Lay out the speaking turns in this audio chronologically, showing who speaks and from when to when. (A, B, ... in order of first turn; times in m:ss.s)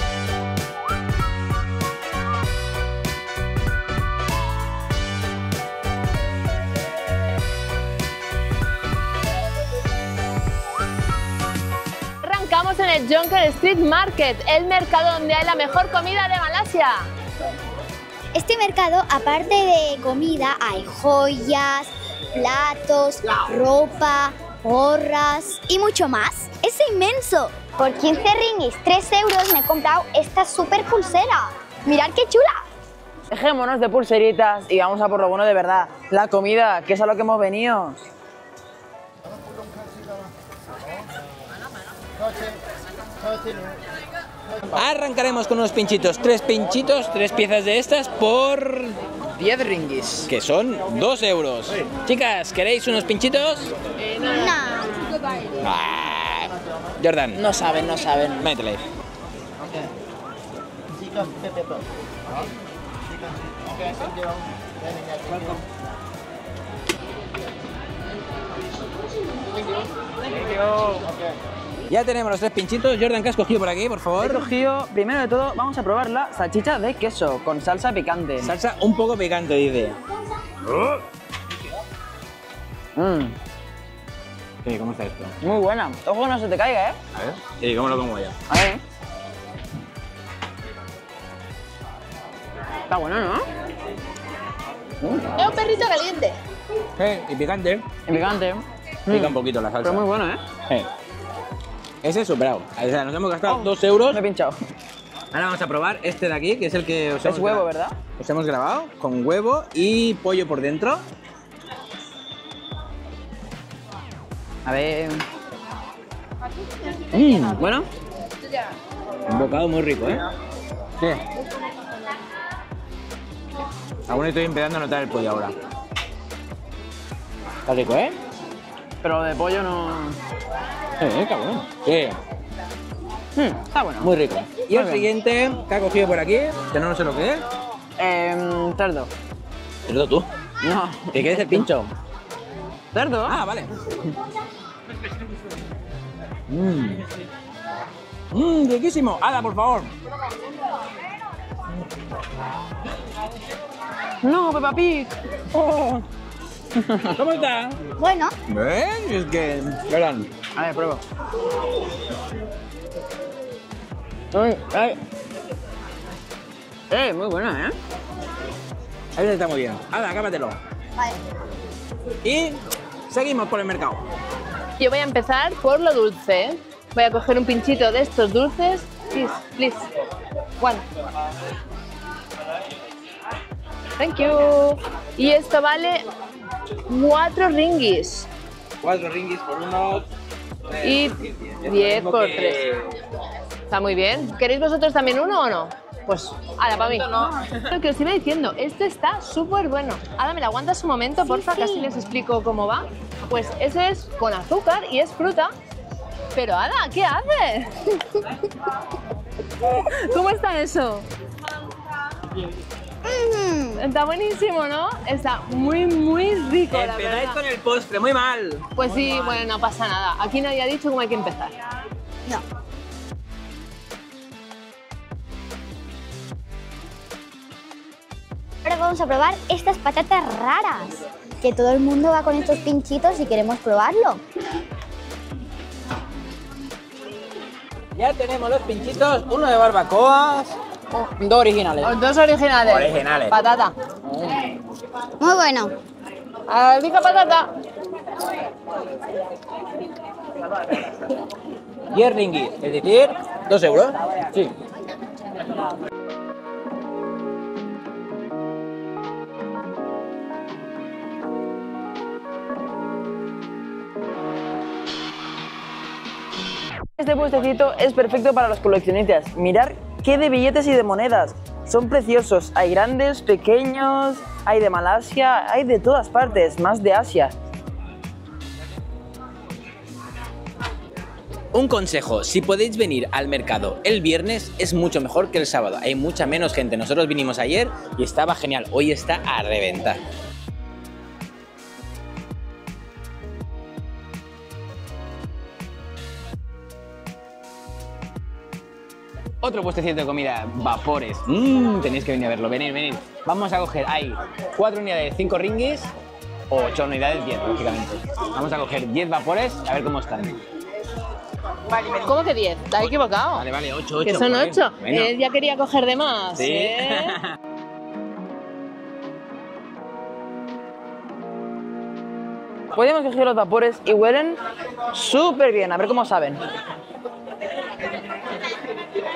0:12.2-0:17.1 A
0:18.3-0:32.6 B
0:33.3-0:38.0 C
0:44.7-0:49.0 D
0:49.4-0:50.3 C
0:50.3-0:53.7 D
0:54.0-0:54.5 A
0:54.2-0:55.2 B
0:55.6-0:57.4 D
0:57.4-0:58.5 C
0:58.4-0:58.8 D
1:11.9-1:14.5 D
1:14.2-1:18.5 C
1:18.4-1:20.0 D
1:20.7-1:21.0 D
1:23.0-1:23.4 C
1:24.6-1:25.4 D
1:25.4-1:27.0 C
1:27.2-1:28.4 D
1:28.5-1:28.8 C
1:32.9-1:33.5 C
1:35.0-1:35.3 C
1:35.4-1:36.4 A
1:37.0-1:37.9 D
1:38.1-1:40.4 C
1:39.1-1:40.1 D
1:42.0-1:44.2 D
1:43.5-1:44.6 C
1:45.3-1:47.7 D
1:47.2-1:48.0 C
1:48.2-1:51.0 D
1:54.6-1:55.2 C
1:57.1-1:57.9 C
1:59.3-2:00.2 D
2:04.1-2:05.5 D
2:07.7-2:08.2 D
2:09.0-2:10.2 C
2:11.0-2:12.2 D
2:13.4-2:14.1 C
2:14.0-2:17.4 D
2:14.7-2:15.1 C
2:18.0-2:19.1 C
2:19.9-2:20.3 D
2:20.6-2:21.7 C
2:21.1-2:21.9 D
2:22.9-2:23.4 C
2:23.3-2:23.7 D
2:26.5-2:27.0 D
2:28.3-2:29.9 D
2:34.2-2:35.1 C
2:35.5-2:36.0 D
2:36.8-2:37.1 C
2:37.1-2:37.8 D
2:38.0-2:38.4 B
2:38.5-2:40.3 D
2:40.6-2:41.0 C
2:44.3-2:45.0 C
2:46.9-2:47.7 C
2:49.2-2:50.6 D
2:52.2-2:54.0 D
2:54.8-2:59.9 A
3:00.6-3:00.8 A
3:04.0-3:06.0 A
3:06.9-3:08.3 A
3:08.8-3:10.1 D
3:10.8-3:12.6 A
3:10.8-3:12.9 D
3:13.7-3:25.5 A
3:17.3-3:17.6 D
3:21.2-3:21.9 B
3:26.3-3:28.4 A
3:29.6-3:31.1 A
3:33.0-3:33.8 B
3:33.8-3:37.4 A
3:36.7-3:38.6 D
3:38.8-3:41.6 A
3:48.6-3:54.2 B
3:58.0-4:00.6 D
4:01.0-4:01.9 C
4:01.8-4:03.7 A
4:02.6-4:03.4 D
4:05.2-4:05.7 B
4:06.5-4:07.5 A
4:11.9-4:14.5 D
4:27.0-4:37.3 C
4:41.5-4:50.0 D
4:59.4-5:05.9 D
5:06.5-5:10.4 D
5:11.9-5:13.4 A
5:13.3-5:15.1 D
5:14.0-5:17.2 A
5:16.4-5:17.3 D
5:22.7-5:24.4 C
5:24.9-5:26.4 C